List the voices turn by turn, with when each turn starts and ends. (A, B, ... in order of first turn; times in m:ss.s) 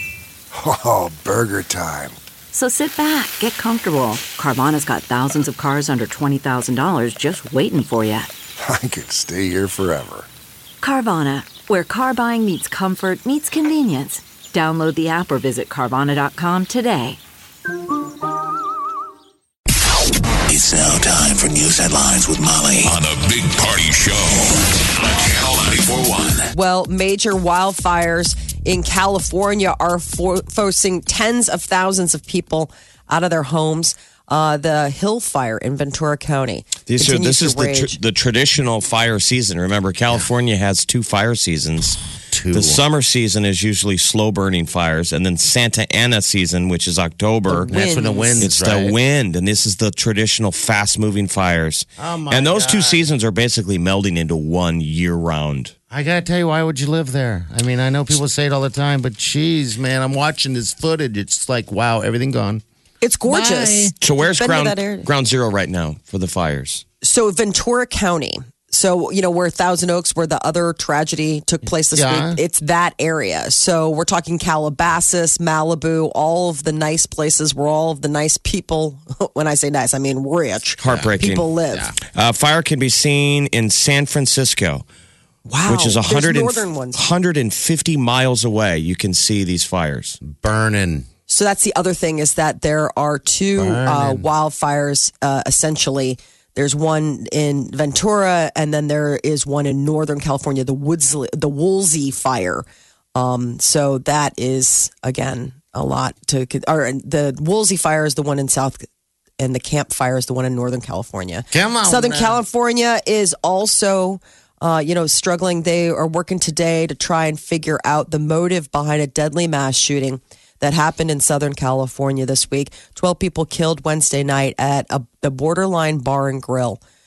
0:00.5-0:02.2 A
0:02.5-0:08.3 B
0:08.6-0:10.3 A
0:10.8-0:17.2 B
0:20.5-0:26.5 C
0:26.5-0:38.0 D
0:36.9-0:42.0 E
0:42.3-0:42.8 F
0:42.5-0:47.7 E
0:47.5-0:48.4 D
0:47.7-0:49.0 F
0:48.4-0:55.7 E
0:52.0-0:53.0 F
0:55.9-1:02.6 F
1:03.0-1:05.1 D
1:03.3-1:03.9 F
1:04.0-1:06.8 E
1:07.0-1:21.9 D
1:11.9-1:12.4 F
1:20.8-1:21.4 E
1:20.9-1:21.1 F
1:22.0-1:24.8 E
1:25.4-1:27.0 D
1:25.6-1:30.2 E
1:30.2-1:31.1 F
1:31.3-1:48.8 D
1:33.6-1:34.2 F
1:49.4-2:06.8 D
1:51.5-1:52.4 F